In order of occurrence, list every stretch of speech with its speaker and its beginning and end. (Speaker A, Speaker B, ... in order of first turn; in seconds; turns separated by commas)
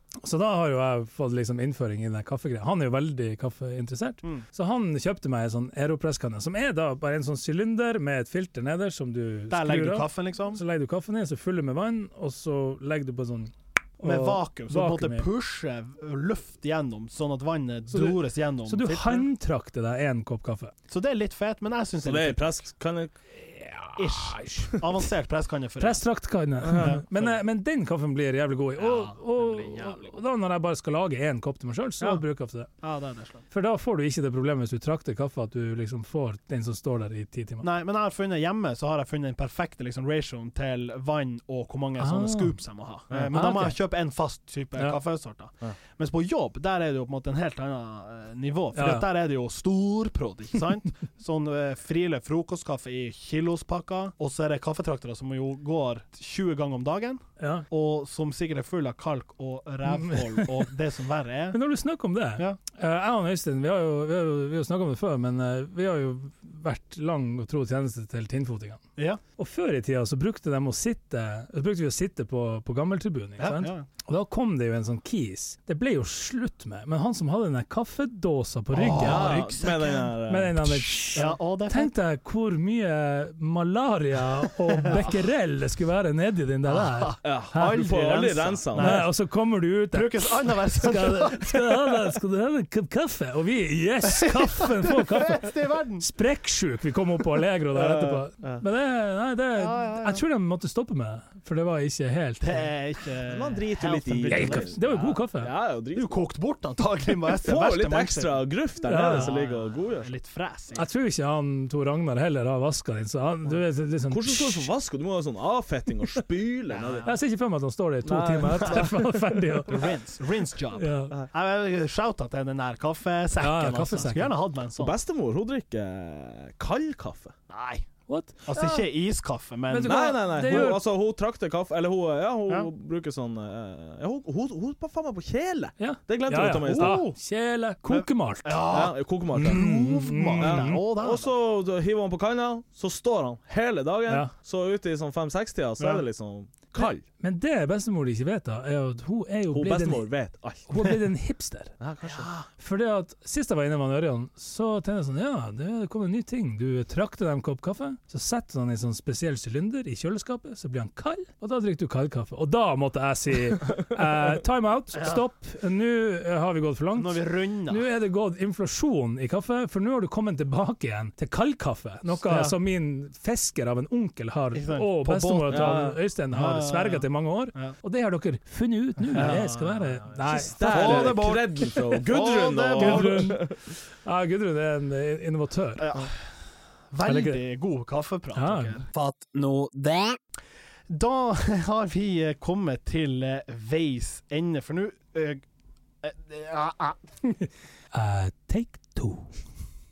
Speaker A: 0.2-15.3, Speaker B: 9.5-10.6, Speaker B: 14.0-19.2, Speaker A: 17.9-20.7, Speaker B: 20.9-22.6, Speaker C: 22.0-23.1, Speaker A: 23.3-25.0, Speaker B: 24.0-26.0, Speaker A: 25.8-32.7, Speaker C: 26.6-27.0, Speaker B: 26.7-27.3, Speaker B: 28.8-30.2, Speaker B: 32.8-33.4, Speaker A: 33.5-37.6, Speaker B: 37.6-61.6, Speaker A: 42.0-42.5, Speaker A: 43.3-43.8, Speaker A: 48.7-49.0, Speaker A: 57.4-57.6, Speaker A: 59.9-60.7, Speaker A: 61.5-68.8, Speaker A: 69.4-79.5, Speaker B: 73.4-73.8, Speaker B: 78.7-80.1, Speaker C: 78.9-81.2, Speaker A: 80.3-87.9, Speaker B: 81.1-81.9, Speaker B: 86.7-89.1, Speaker C: 87.2-89.0, Speaker A: 88.8-102.7, Speaker B: 89.9-92.0, Speaker B: 94.0-96.1, Speaker C: 97.7-98.6, Speaker B: 99.6-100.2, Speaker B: 102.4-104.8, Speaker C: 103.2-106.2, Speaker A: 104.3-105.5, Speaker B: 105.9-110.8, Speaker C: 107.4-110.1, Speaker A: 108.9-109.3, Speaker A: 110.7-114.7, Speaker C: 114.1-117.1, Speaker B: 116.7-117.1, Speaker A: 117.0-119.8, Speaker C: 118.0-118.9, Speaker B: 119.7-124.9, Speaker A: 120.7-121.2, Speaker A: 123.4-124.3, Speaker C: 124.8-127.3, Speaker B: 127.5-127.8, Speaker A: 128.1-128.4, Speaker B: 128.4-130.7, Speaker C: 128.5-128.8, Speaker A: 129.7-130.8, Speaker C: 129.8-137.0, Speaker A: 135.8-138.6, Speaker B: 136.6-137.2, Speaker B: 137.9-141.3, Speaker C: 138.7-139.6, Speaker A: 139.3-140.8, Speaker C: 140.4-147.0, Speaker A: 147.2-150.1, Speaker C: 149.5-150.8, Speaker A: 150.7-151.7, Speaker C: 151.8-152.3, Speaker B: 152.1-152.4, Speaker A: 152.6-181.2, Speaker B: 166.9-167.8, Speaker B: 172.1-172.5, Speaker B: 174.5-177.7, Speaker C: 175.5-176.0, Speaker B: 179.1-183.4, Speaker C: 180.3-183.5, Speaker A: 182.8-185.9, Speaker B: 185.8-186.1, Speaker B: 186.9-190.2, Speaker A: 187.0-187.4, Speaker A: 188.3-188.8, Speaker B: 190.9-195.4, Speaker B: 196.0-197.4, Speaker A: 197.9-199.3